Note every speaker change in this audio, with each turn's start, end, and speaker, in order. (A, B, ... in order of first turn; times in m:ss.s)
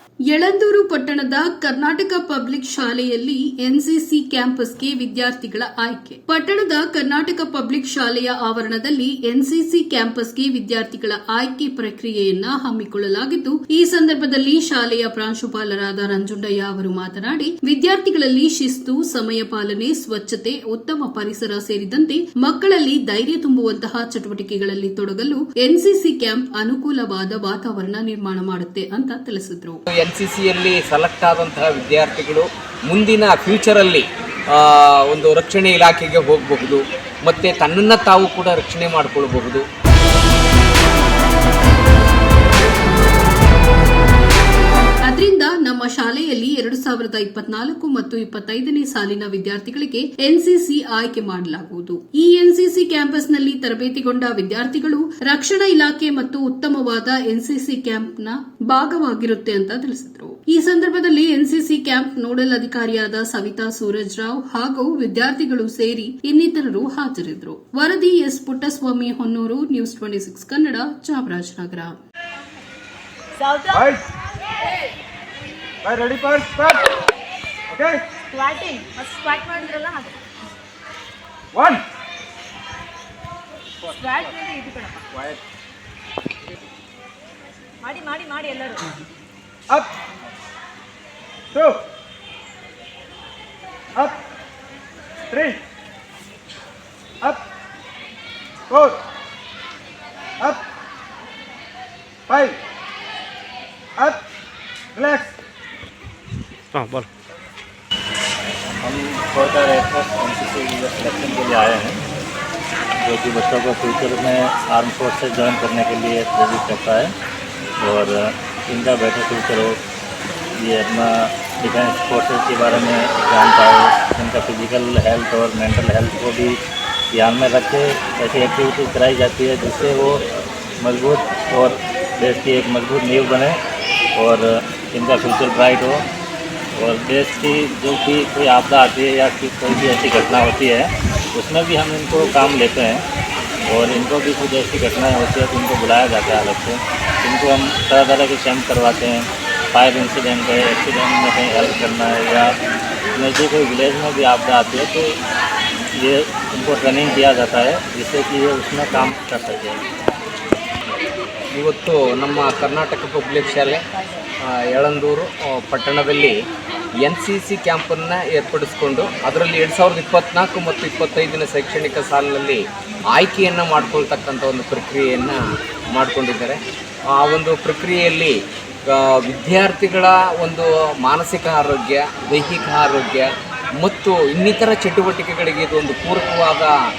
0:00.3-0:29.8 A
0:30.0-0:39.6 B
0:45.1-1:12.0 A
1:13.4-1:14.0 C
1:15.8-1:16.8 D
1:17.7-1:18.0 D
1:18.3-1:20.2 C
1:21.6-1:21.8 D
1:23.8-1:25.1 C
1:27.8-1:29.0 C
1:31.6-1:31.8 D
1:35.3-1:35.6 D
1:42.3-1:42.6 D
1:45.0-1:45.3 D
1:48.8-1:52.0 E
1:53.0-1:57.2 E
1:57.8-1:59.8 E
2:00.6-2:06.6 E
2:07.1-2:10.3 E
2:10.8-2:13.6 E
2:14.2-2:16.1 E
2:16.8-2:23.1 E
2:23.7-2:32.5 E
2:33.2-2:35.2 E
2:36.0-2:39.8 E
2:41.6-2:43.8 B
2:44.5-2:46.3 B
2:47.0-2:52.6 B
2:53.1-2:55.4 B
2:56.0-2:56.6 B
2:57.2-2:58.3 B
2:58.9-3:06.7 B